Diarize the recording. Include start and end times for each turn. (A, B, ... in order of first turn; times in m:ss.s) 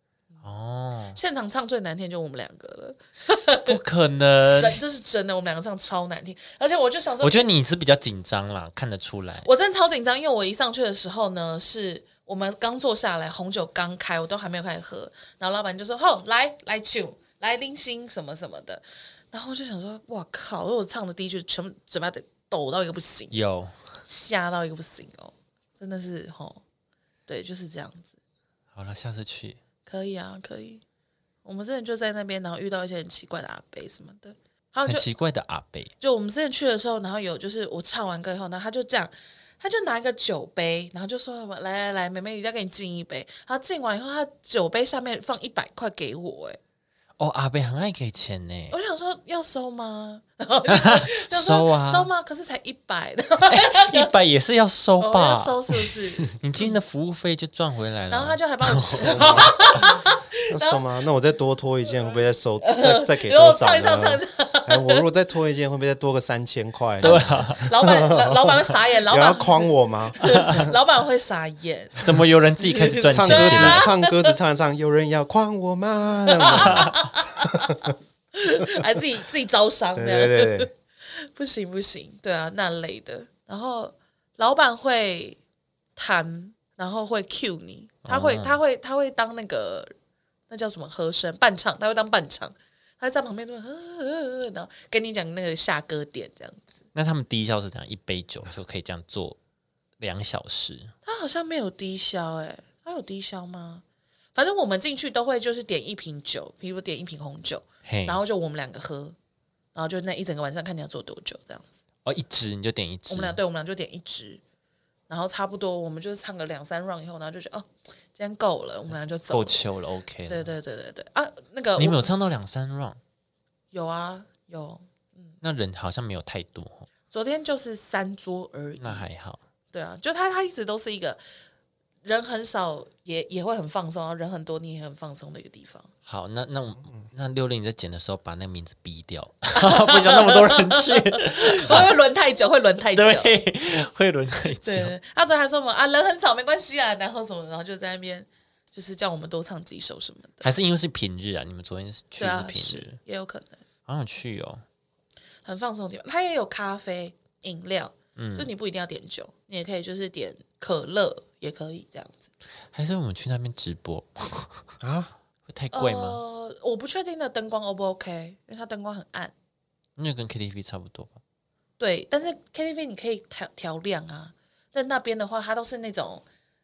0:00.4-0:01.2 A
0:01.1-0:03.8 B
0:03.6-0:04.8 A
0:04.5-0:07.5 B
0:07.2-0:09.5 A
0:09.4-0:23.4 B
0:23.3-0:23.7 A
0:24.0-0:26.6 B
0:27.3-0:28.1 B
0:28.7-0:29.6 A
0:29.8-0:30.8 B
0:31.4-0:35.0 B
0:34.8-0:35.9 A
0:36.0-0:46.6 B
0:47.2-0:48.8 A
0:48.7-0:54.1 B
0:50.6-0:52.1 A
0:53.5-0:59.8 A
0:55.0-0:56.7 B
0:58.1-1:00.8 B
0:59.0-0:59.6 C
1:00.5-1:10.8 C
1:02.6-1:05.0 B
1:07.0-1:07.7 A
1:07.0-1:14.3 B
1:10.2-1:10.6 A
1:12.0-1:13.9 A
1:13.1-1:17.0 C
1:16.3-1:25.4 B
1:16.5-1:16.9 A
1:19.9-1:20.7 C
1:26.0-1:29.9 B
1:28.0-1:28.6 A
1:30.5-1:36.7 B
1:36.9-1:39.4 A
1:40.0-1:40.9 A
1:41.0-1:43.8 B
1:44.3-1:49.2 B
1:47.8-1:48.2 A
1:49.7-1:51.7 B
1:52.0-1:53.4 A
1:53.1-1:54.4 B
1:55.1-1:59.6 B
1:59.3-2:00.5 A
2:00.3-2:02.1 B
2:01.8-2:03.0 A
2:03.7-2:05.3 B
2:05.4-2:06.9 A
2:07.1-2:09.0 B
2:08.8-2:09.4 A
2:09.7-2:11.2 B
2:12.0-2:15.9 B
2:16.0-2:21.9 A
2:19.5-2:23.3 B
2:22.9-2:24.9 A
2:24.6-2:30.5 B
2:30.4-2:33.0 A
2:32.2-2:33.6 B
2:33.9-2:34.6 A
2:35.4-2:42.3 B
2:38.2-2:38.5 A
2:42.7-2:44.7 A
2:44.8-2:45.1 C
2:45.5-2:46.2 A
2:45.7-2:49.3 B
2:50.0-2:51.2 A
2:51.8-2:56.2 B